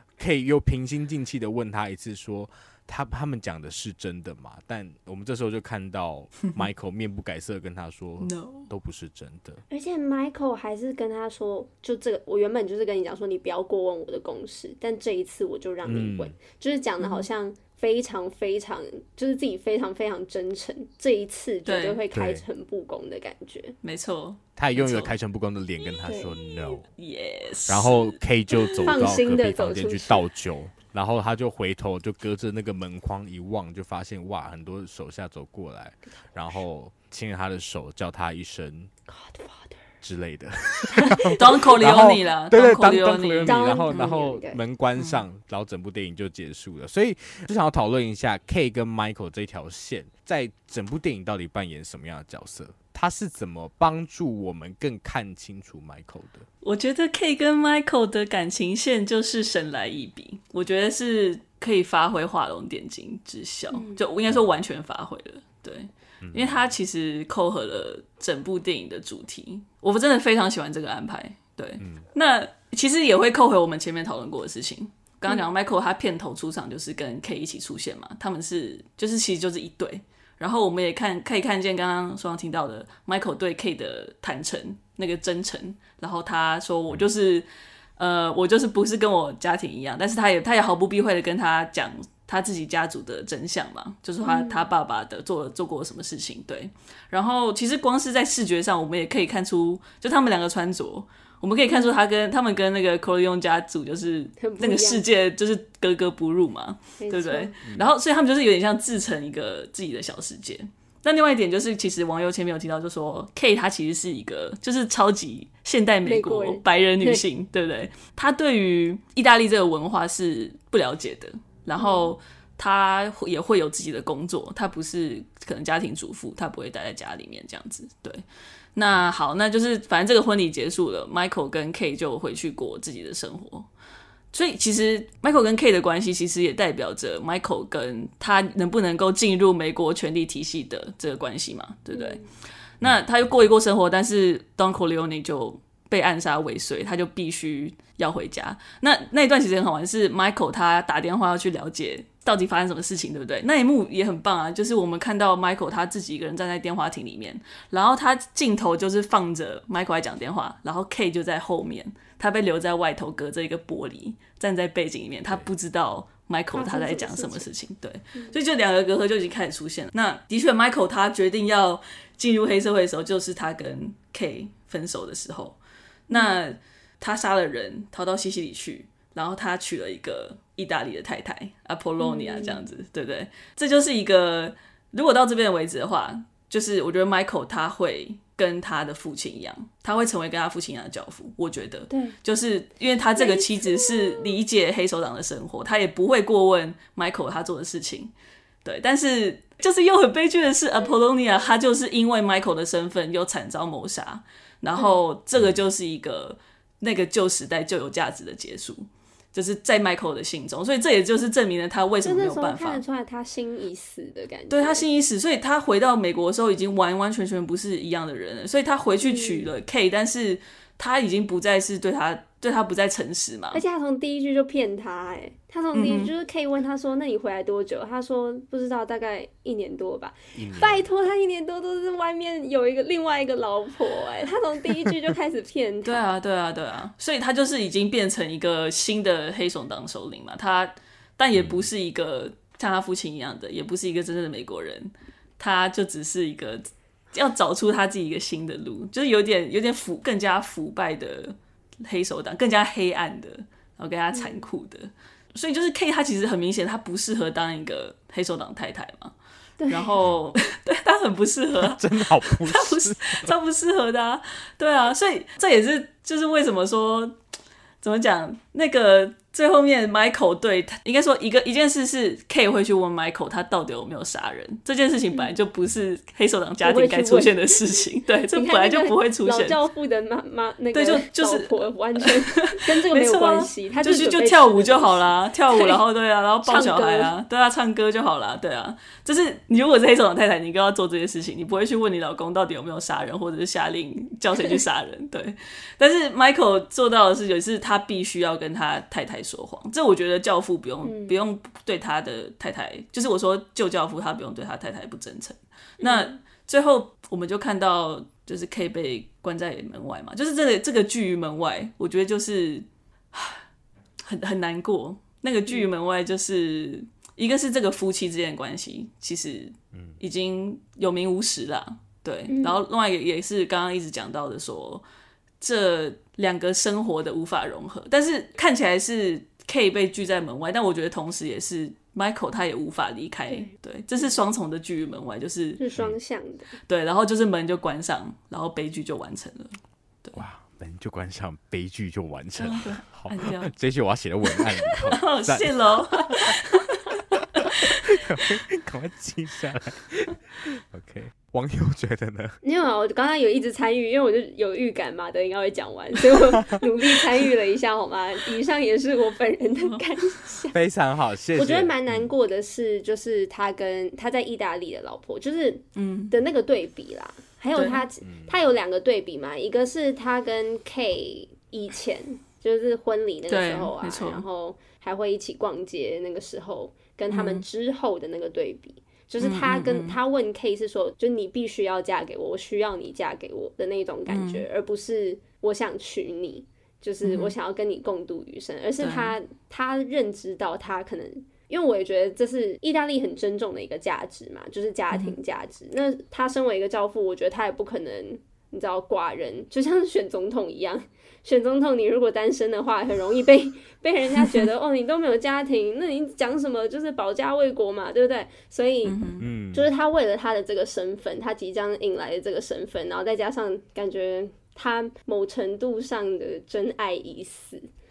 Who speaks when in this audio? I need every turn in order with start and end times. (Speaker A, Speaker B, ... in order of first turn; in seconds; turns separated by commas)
Speaker A: 0.2-9.6, Speaker B: 8.2-8.7, Speaker C: 9.7-23.8, Speaker A: 15.8-16.4, Speaker B: 17.0-17.3, Speaker B: 21.6-22.0, Speaker A: 22.1-22.4, Speaker B: 23.8-25.1, Speaker A: 24.6-26.9, Speaker C: 26.1-26.3, Speaker B: 26.9-29.1, Speaker A: 27.7-38.9, Speaker C: 28.8-30.2, Speaker C: 39.1-39.8, Speaker A: 40.0-56.5, Speaker C: 41.0-41.3, Speaker B: 41.3-44.1, Speaker C: 43.5-44.6, Speaker B: 45.0-45.2, Speaker B: 56.6-128.2, Speaker C: 63.7-64.0, Speaker A: 66.2-66.7, Speaker A: 71.8-72.0, Speaker C: 94.2-94.7, Speaker C: 104.4-105.0, Speaker C: 107.0-107.5, Speaker A: 107.6-107.9, Speaker C: 116.0-117.2, Speaker C: 121.8-122.1, Speaker B: 128.7-133.7, Speaker B: 134.3-142.2, Speaker C: 141.9-142.2, Speaker B: 142.8-175.6, Speaker C: 166.5-167.5, Speaker B: 176.1-198.1, Speaker C: 176.1-176.4, Speaker C: 182.0-182.7, Speaker C: 191.9-192.2, Speaker C: 193.2-194.2, Speaker B: 198.6-212.8, Speaker C: 204.7-205.0, Speaker C: 212.0-214.8, Speaker B: 214.5-223.6, Speaker C: 219.0-219.5, Speaker C: 223.5-236.1, Speaker B: 225.7-226.1, Speaker A: 230.3-230.9, Speaker B: 235.8-259.1, Speaker A: 241.3-241.7, Speaker C: 254.1-254.5, Speaker C: 259.6-260.0, Speaker B: 259.7-267.1, Speaker A: 261.5-263.3, Speaker B: 267.8-279.6, Speaker C: 276.6-277.8, Speaker C: 278.3-285.8, Speaker B: 280.7-313.4, Speaker C: 286.4-287.1, Speaker C: 300.8-301.2, Speaker C: 305.8-306.1, Speaker B: 314.0-324.8, Speaker C: 322.3-322.6, Speaker B: 325.4-335.6, Speaker C: 335.6-336.5, Speaker B: 336.7-340.2, Speaker A: 340.1-346.4, Speaker B: 342.4-343.5, Speaker B: 344.3-348.0, Speaker A: 347.2-352.4, Speaker C: 352.4-360.6, Speaker B: 359.6-359.8, Speaker A: 360.5-362.1, Speaker C: 361.4-417.6, Speaker B: 365.8-366.1, Speaker B: 367.5-367.8, Speaker A: 368.0-368.3, Speaker B: 373.3-374.2, Speaker B: 377.1-377.4, Speaker B: 379.2-380.0, Speaker B: 384.1-384.4, Speaker B: 387.0-387.3, Speaker B: 388.8-389.1, Speaker B: 394.9-395.1, Speaker B: 408.8-409.2, Speaker A: 409.2-409.7